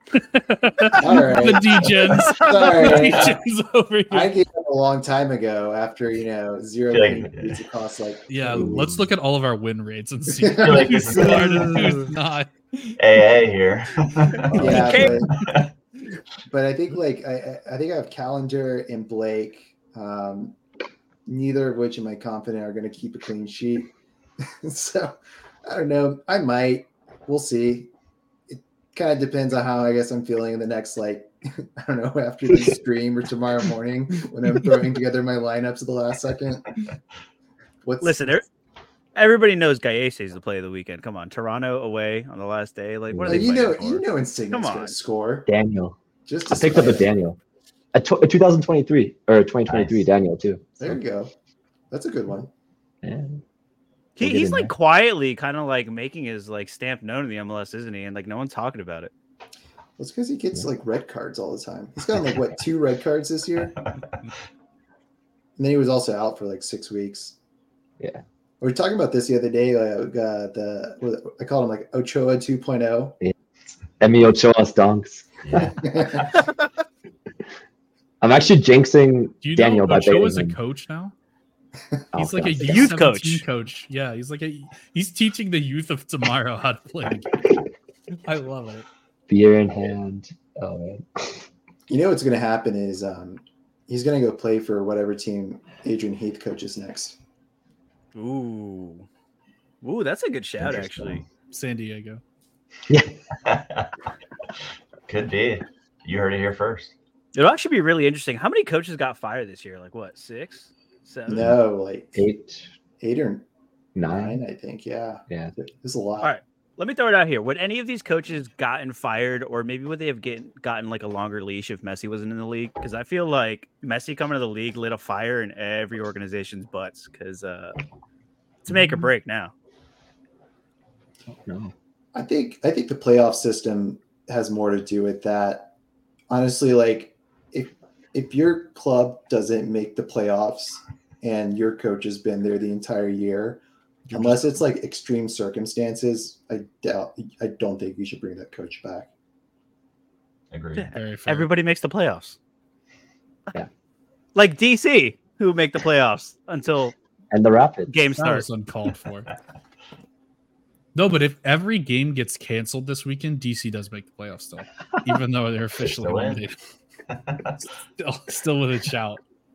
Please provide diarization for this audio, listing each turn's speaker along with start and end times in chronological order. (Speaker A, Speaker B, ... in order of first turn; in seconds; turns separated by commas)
Speaker A: 0.1-4.3, Speaker B: 0.9-3.4, Speaker B: 4.1-8.7, Speaker C: 6.9-7.6, Speaker A: 8.3-13.0, Speaker D: 8.5-9.1, Speaker B: 10.3-12.1, Speaker C: 10.6-12.0, Speaker C: 13.0-15.7, Speaker D: 14.5-15.1, Speaker B: 14.6-15.4, Speaker E: 14.7-15.1, Speaker B: 16.5-20.6, Speaker B: 21.3-23.9, Speaker B: 24.6-27.9, Speaker B: 28.5-36.8, Speaker B: 37.8-38.3, Speaker E: 38.0-38.5, Speaker E: 39.2-45.0, Speaker D: 43.1-43.5, Speaker B: 43.2-45.5, Speaker D: 45.5-46.0, Speaker B: 46.3-47.1, Speaker D: 46.5-47.4, Speaker D: 47.9-51.0, Speaker C: 49.7-50.0, Speaker B: 50.8-51.3, Speaker B: 51.9-52.5, Speaker D: 53.0-53.4, Speaker E: 54.2-59.1, Speaker D: 54.2-54.7, Speaker B: 60.0-63.7, Speaker B: 65.6-67.4, Speaker B: 68.6-73.2, Speaker D: 74.0-75.7, Speaker C: 75.4-76.3, Speaker B: 75.8-76.3, Speaker D: 78.2-80.6, Speaker A: 79.4-81.1, Speaker D: 82.1-82.9, Speaker A: 82.2-87.6, Speaker E: 82.6-83.5, Speaker A: 88.1-88.9, Speaker D: 89.3-91.5, Speaker B: 91.9-97.2, Speaker E: 98.2-99.1, Speaker E: 99.8-101.2, Speaker D: 100.6-101.2, Speaker A: 101.5-102.2, Speaker C: 103.4-103.9, Speaker C: 105.1-106.9, Speaker E: 107.3-111.5, Speaker B: 111.3-112.3, Speaker D: 112.2-112.7, Speaker B: 113.0-113.5, Speaker D: 114.0-114.4, Speaker B: 114.1-116.3, Speaker D: 115.3-115.5, Speaker E: 116.2-127.8, Speaker E: 128.7-129.5, Speaker D: 128.7-129.0, Speaker D: 131.3-131.7, Speaker B: 132.1-135.7, Speaker B: 136.3-149.1, Speaker A: 144.1-144.6, Speaker C: 150.5-150.9, Speaker E: 150.8-152.4, Speaker A: 150.9-151.5, Speaker E: 154.3-156.9, Speaker D: 157.3-157.9, Speaker E: 157.9-158.5, Speaker A: 158.2-159.3, Speaker A: 160.9-166.6, Speaker C: 165.8-166.4, Speaker C: 167.1-167.5, Speaker A: 167.6-169.2